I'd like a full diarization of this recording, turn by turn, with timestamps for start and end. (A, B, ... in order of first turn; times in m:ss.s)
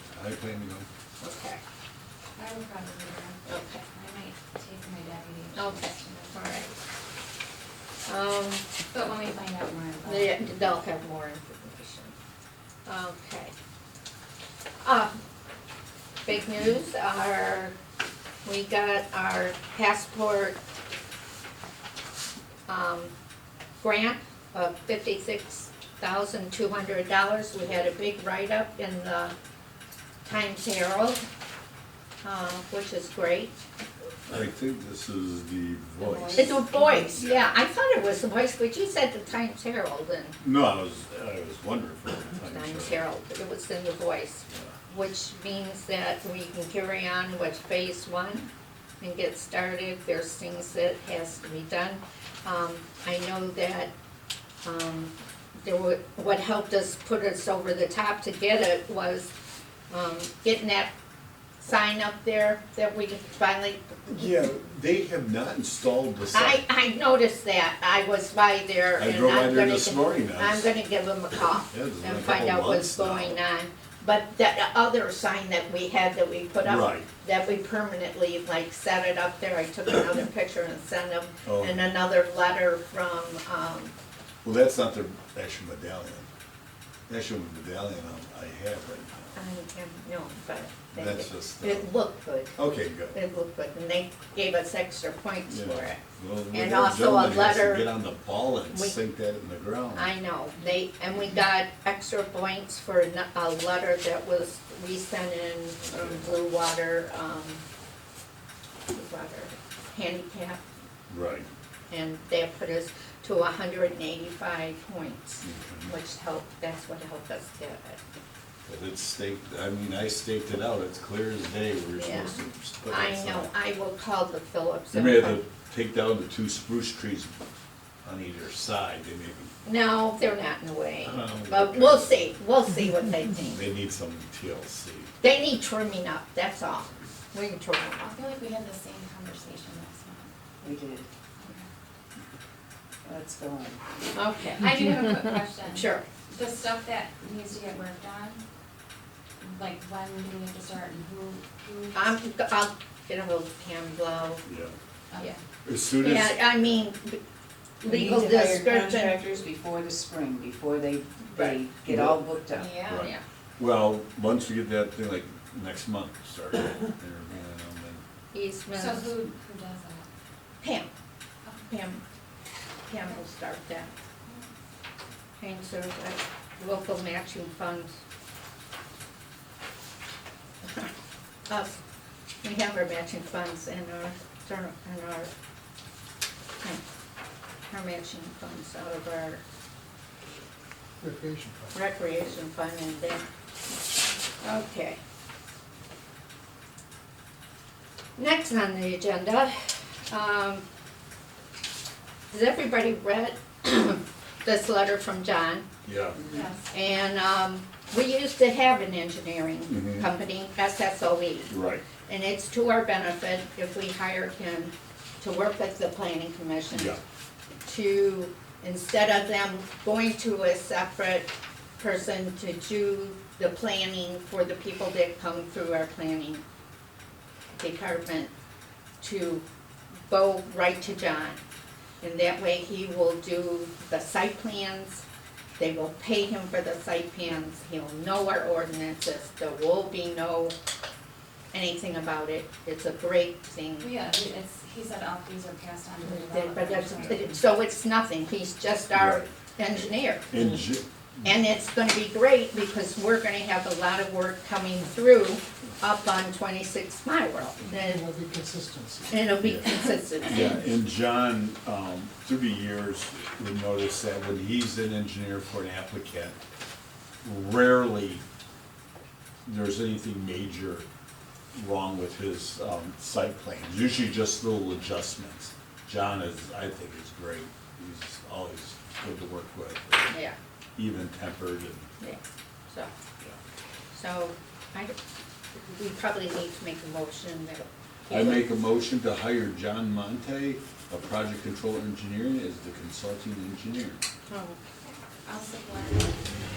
0:00.1-0:00.9 A
0:01.2-0:01.6 B
0:02.4-0:06.6 C
0:03.4-0:03.8 B
0:05.5-0:06.7 B
0:08.0-0:08.6 B
0:08.9-0:10.4 C
0:10.0-0:12.1 B
0:12.8-0:13.5 B
0:14.8-0:15.1 B
0:16.2-0:17.7 B
0:18.4-0:20.6 B
0:22.7-0:23.1 B
0:23.8-0:29.3 B
0:30.2-0:31.2 B
0:32.2-0:33.5 B
0:34.3-0:37.5 A
0:36.0-0:37.1 D
0:36.4-0:40.4 B
0:40.4-0:43.0 A
0:42.4-0:48.5 B
0:49.0-0:53.9 B
0:54.6-0:55.1 B
0:55.6-0:59.3 B
0:59.9-1:00.9 B
1:01.6-1:04.4 B
1:04.1-1:06.6 A
1:06.3-1:23.9 B
1:09.0-1:10.7 A
1:11.7-1:13.4 A
1:16.6-1:17.1 A
1:21.4-1:21.9 A
1:24.4-1:26.3 A
1:27.1-1:29.4 A
1:29.4-1:32.6 B
1:30.9-1:31.9 A
1:32.6-1:33.2 A
1:33.1-1:36.0 B
1:35.5-1:40.1 A
1:36.5-1:37.9 B
1:39.9-1:47.6 B
1:45.8-1:46.3 A
1:48.9-1:50.6 B
1:51.1-1:51.5 A
1:51.9-1:58.0 B
1:55.4-1:55.9 A
1:58.6-2:03.5 A
2:02.0-2:02.4 B
2:02.9-2:05.4 B
2:04.9-2:07.3 A
2:08.0-2:09.5 A
2:09.6-2:13.6 B
2:11.0-2:12.3 A
2:13.5-2:15.1 A
2:15.2-2:18.1 B
2:18.0-2:20.3 C
2:20.6-2:21.1 D
2:21.4-2:21.7 C
2:23.0-2:23.8 D
2:24.1-2:24.8 B
2:24.5-2:28.4 C
2:25.7-2:26.0 B
2:29.4-2:32.1 C
2:31.9-2:34.4 B
2:34.4-2:34.7 A
2:35.1-2:35.4 C
2:35.6-2:36.4 A
2:36.0-2:37.2 B
2:37.8-2:39.2 B
2:37.8-2:42.7 D
2:41.8-2:42.2 A
2:42.5-2:43.1 C
2:42.7-2:43.2 B
2:42.8-2:48.0 A
2:48.3-2:49.1 B
2:48.7-2:50.1 C
2:50.6-2:50.9 B
2:51.7-2:52.0 B
2:52.9-2:53.9 B
2:55.4-2:57.9 B
3:01.5-3:01.8 B
3:02.4-3:05.3 B
3:07.7-3:09.4 B
3:11.0-3:11.7 E
3:11.7-3:13.2 B
3:14.4-3:15.0 B
3:18.2-3:20.6 B
3:22.3-3:25.7 B
3:25.8-3:26.2 A
3:26.3-3:26.6 C
3:26.7-3:31.5 B
3:29.7-3:30.1 A
3:31.5-3:31.8 A
3:32.0-3:37.0 B
3:36.7-3:37.0 A
3:37.6-3:46.4 B
3:47.6-3:48.3 B
3:49.0-3:49.4 B
3:50.1-3:51.4 B
3:52.0-3:55.0 B
3:55.6-4:00.5 B
4:01.5-4:03.9 B
4:03.8-4:07.4 C
4:06.0-4:10.4 B
4:08.9-4:09.3 A
4:10.3-4:10.8 A
4:11.2-4:18.0 B
4:17.7-4:19.2 E
4:19.1-4:20.6 B
4:19.4-4:26.4 A
4:27.2-4:28.2 A
4:29.4-4:30.8 A
4:31.5-4:40.1 A
4:40.1-4:40.4 B
4:40.8-4:41.9 A
4:42.0-4:42.9 B
4:43.9-4:44.9 B
4:45.7-4:48.4 B
4:48.1-4:54.0 A
4:54.3-4:54.6 B
4:55.2-4:56.3 C